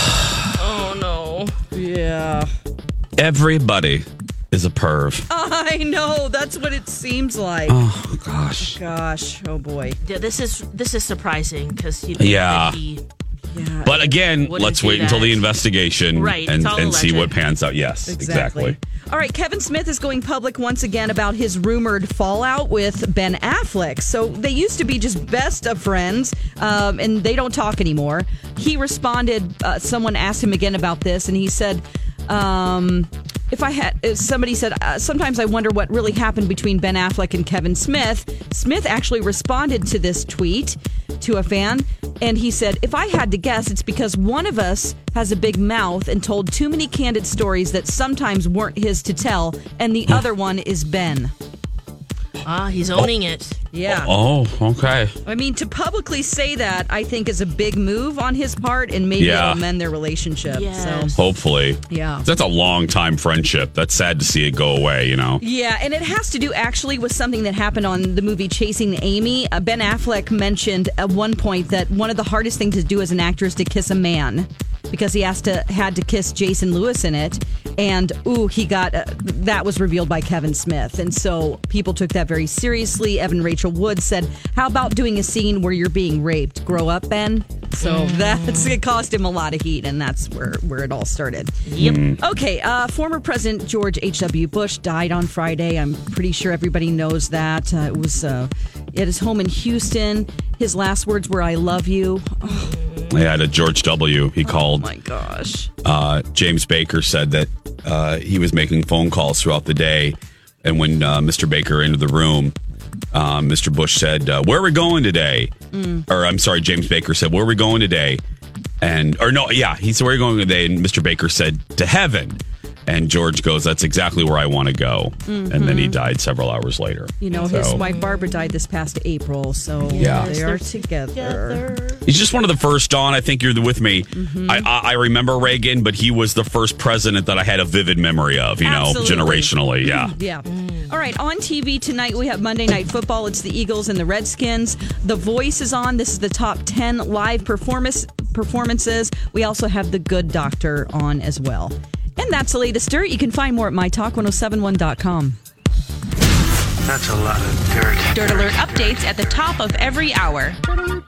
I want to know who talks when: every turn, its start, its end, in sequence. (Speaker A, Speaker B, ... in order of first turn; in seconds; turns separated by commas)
Speaker A: 0.5-1.5, Speaker B: 1.7-2.5, Speaker C: 3.2-5.2, Speaker B: 5.3-7.8, Speaker C: 7.7-8.8, Speaker B: 8.6-10.0, Speaker A: 10.0-13.0, Speaker C: 12.2-12.8, Speaker B: 13.5-14.2, Speaker C: 13.8-18.8, Speaker A: 14.4-15.5, Speaker A: 16.1-17.4, Speaker B: 18.1-51.3, Speaker A: 52.4-53.6, Speaker B: 53.7-54.1, Speaker C: 53.8-55.1, Speaker B: 55.2-61.2, Speaker C: 59.2-59.6, Speaker A: 60.5-61.2, Speaker C: 61.1-65.4, Speaker B: 61.9-62.3, Speaker B: 65.4-91.5, Speaker A: 87.8-88.8, Speaker A: 91.7-92.0, Speaker C: 91.8-92.2, Speaker B: 92.2-102.7, Speaker A: 102.4-103.2, Speaker C: 103.1-104.8, Speaker B: 104.4-105.7, Speaker C: 105.8-112.5, Speaker C: 113.1-115.5, Speaker B: 115.7-116.0, Speaker C: 116.1-118.2, Speaker C: 118.8-127.8, Speaker B: 125.3-126.0, Speaker B: 127.2-131.6, Speaker A: 127.3-128.5, Speaker A: 129.8-132.0, Speaker C: 129.9-130.3, Speaker C: 132.0-140.1, Speaker B: 134.1-134.7, Speaker B: 138.6-155.4, Speaker A: 140.5-140.8, Speaker D: 156.8-159.6, Speaker E: 158.1-160.6